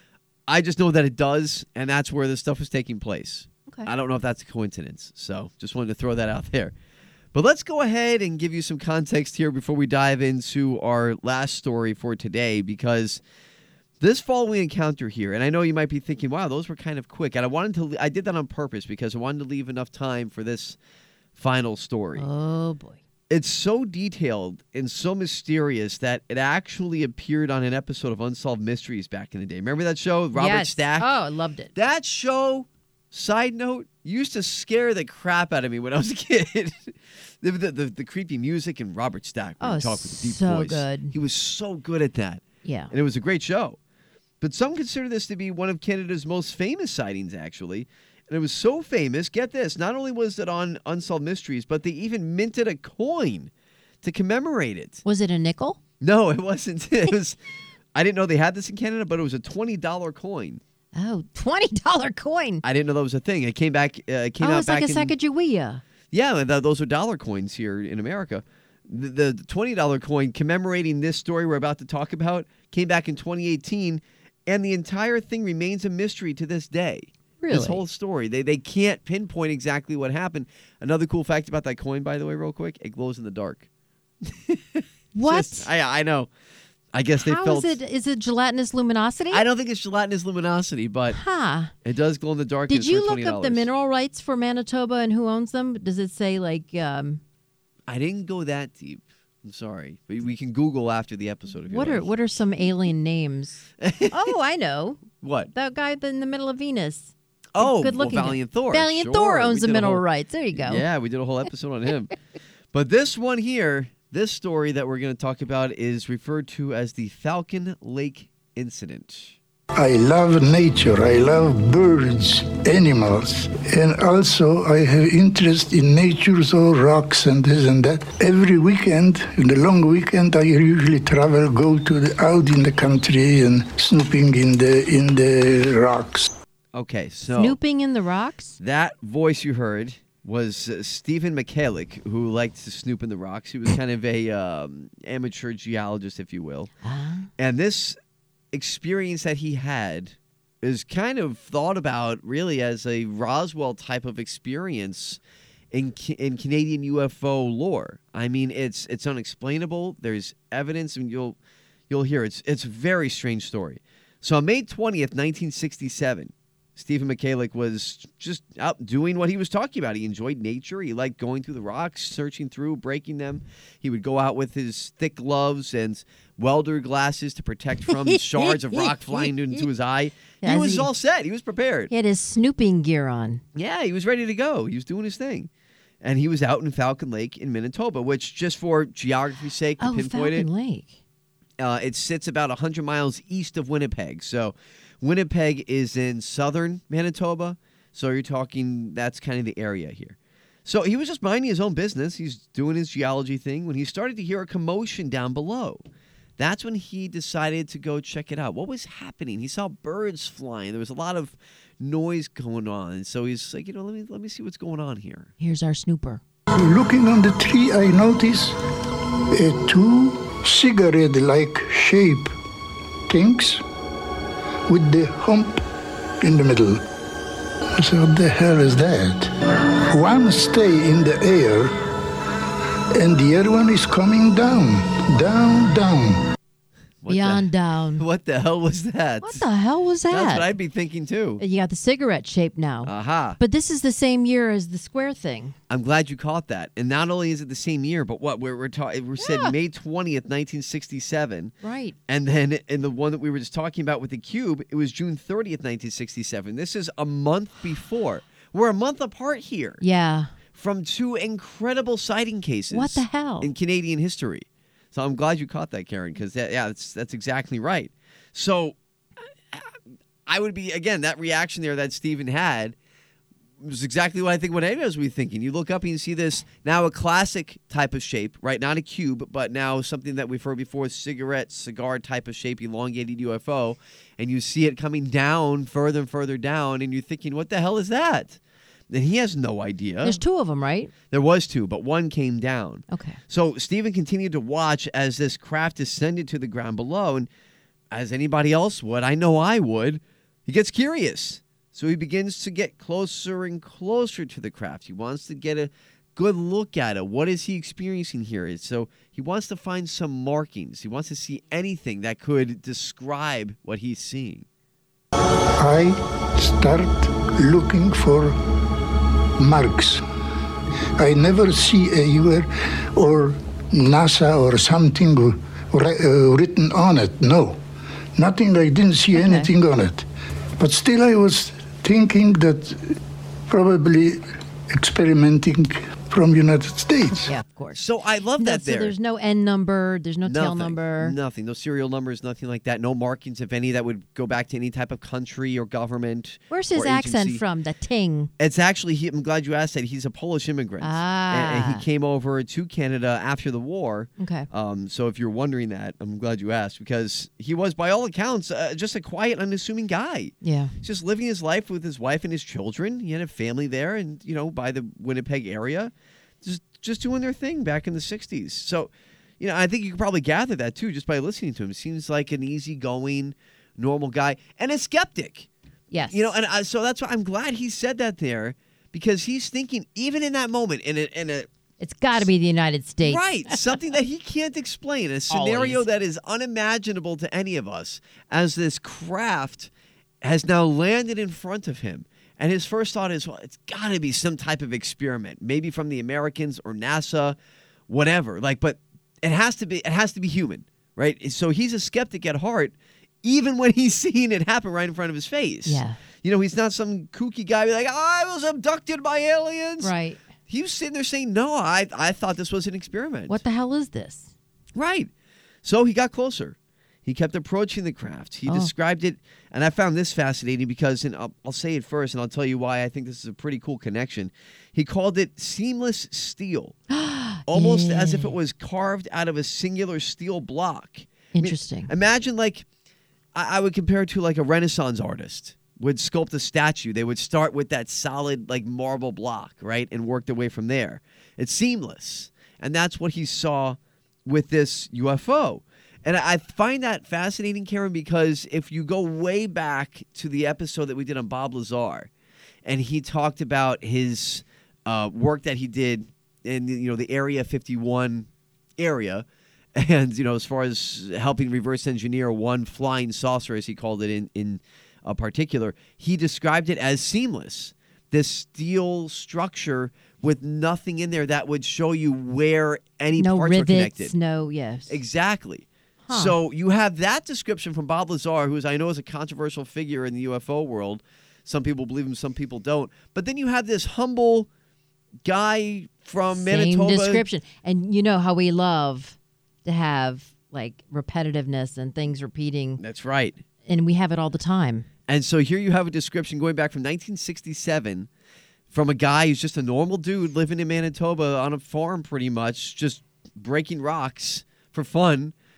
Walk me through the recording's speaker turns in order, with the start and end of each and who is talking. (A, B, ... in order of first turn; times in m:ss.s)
0:00.5-0:06.7 A
0:07.3-0:13.2 A
0:14.0-0:20.8 A
0:21.3-0:22.2 A
0:22.2-0:23.0 B
0:23.3-0:31.1 A
0:30.3-0:31.7 B
0:31.7-0:43.8 A
0:39.6-0:41.1 B
0:42.6-0:42.9 B
0:44.4-0:53.5 A
0:54.0-0:55.0 A
0:55.0-0:55.8 B
0:56.0-0:57.4 A
0:57.9-1:00.6 A
1:00.9-1:02.6 B
1:02.6-1:05.1 A
1:04.4-1:05.8 B
1:06.1-1:23.6 A
1:17.4-1:17.8 B
1:24.2-1:26.3 A
1:25.1-1:25.7 B
1:26.9-1:27.8 A
1:27.2-1:29.4 B
1:29.3-1:31.2 A
1:31.1-1:31.7 B
1:31.8-1:33.7 A
1:32.7-1:37.2 B
1:37.9-1:42.1 A
1:41.7-1:50.8 B
1:43.8-1:44.3 A
1:45.2-1:45.5 A
1:47.5-1:52.1 A
1:52.7-1:59.4 A
1:59.8-2:16.3 C
2:16.7-2:17.6 A
2:17.3-2:18.6 B
2:18.6-2:26.7 A
2:26.8-2:27.3 B
2:27.4-2:28.0 A
2:28.5-2:35.2 A
2:35.7-2:41.4 A
2:41.9-3:01.9 A
2:57.9-2:59.7 B
3:00.4-3:00.9 B
3:01.9-3:03.4 B
3:03.5-3:05.5 A
3:06.0-3:10.5 A
3:09.8-3:11.0 B
3:11.6-3:25.8 A
3:26.4-3:35.3 A
3:35.4-3:36.2 B
3:36.5-3:38.5 C
3:39.3-3:42.3 C
3:43.1-3:43.6 C
3:44.7-3:45.6 C
3:46.2-3:46.8 C
3:47.8-3:49.3 C
3:49.9-3:51.7 C
3:52.9-3:56.2 C
3:57.0-3:57.4 A
3:57.1-3:58.0 B
3:58.0-3:59.4 A
3:59.2-4:00.5 B
4:00.1-4:01.4 A
4:01.4-4:05.6 B
4:02.8-4:03.4 A
4:05.7-4:11.5 A
4:09.2-4:09.5 B
4:11.6-4:12.0 B
4:12.1-4:19.8 A
4:19.8-4:20.3 B
4:20.5-4:32.8 A
4:22.7-4:23.5 B
4:33.6-4:48.4 A
4:48.9-4:50.2 A
4:50.0-4:50.9 B
4:51.1-4:57.3 A
4:52.9-4:53.2 B
4:57.9-5:14.4 A
5:15.6-5:18.4 C
5:19.4-5:20.0 C
5:21.0-5:27.6 C
5:28.2-5:30.0 C
5:29.1-5:29.5 B
5:30.6-5:37.3 C
5:37.2-5:37.8 B
5:37.7-5:38.9 A
5:38.4-5:41.2 B
5:40.2-5:47.4 A
5:46.5-5:48.3 B
5:48.4-6:15.5 A
5:50.8-5:51.8 B
5:54.2-5:54.5 B
6:00.4-6:00.7 B
6:15.9-6:16.3 B
6:16.1-6:21.5 A
6:21.8-6:23.6 B
6:23.0-6:29.7 A
6:25.3-6:25.8 B
6:30.2-6:37.4 A
6:37.9-6:49.9 A
6:45.6-6:46.0 B
6:49.8-6:50.2 B
6:50.5-6:53.4 A
6:53.3-6:54.3 B
6:54.7-6:55.1 A
6:55.6-7:06.8 A
6:58.4-6:58.7 B
7:06.9-7:08.3 B
7:07.5-7:12.6 A
7:11.3-7:11.9 B
7:13.3-7:32.1 A
7:32.6-7:54.1 A
7:53.2-7:55.0 B
7:54.9-8:04.5 A
7:56.1-7:56.4 B
8:05.2-8:07.2 A
8:06.3-8:12.8 B
8:12.8-8:13.4 A
8:13.6-8:14.9 B
8:15.1-8:18.1 A
8:18.7-8:25.3 A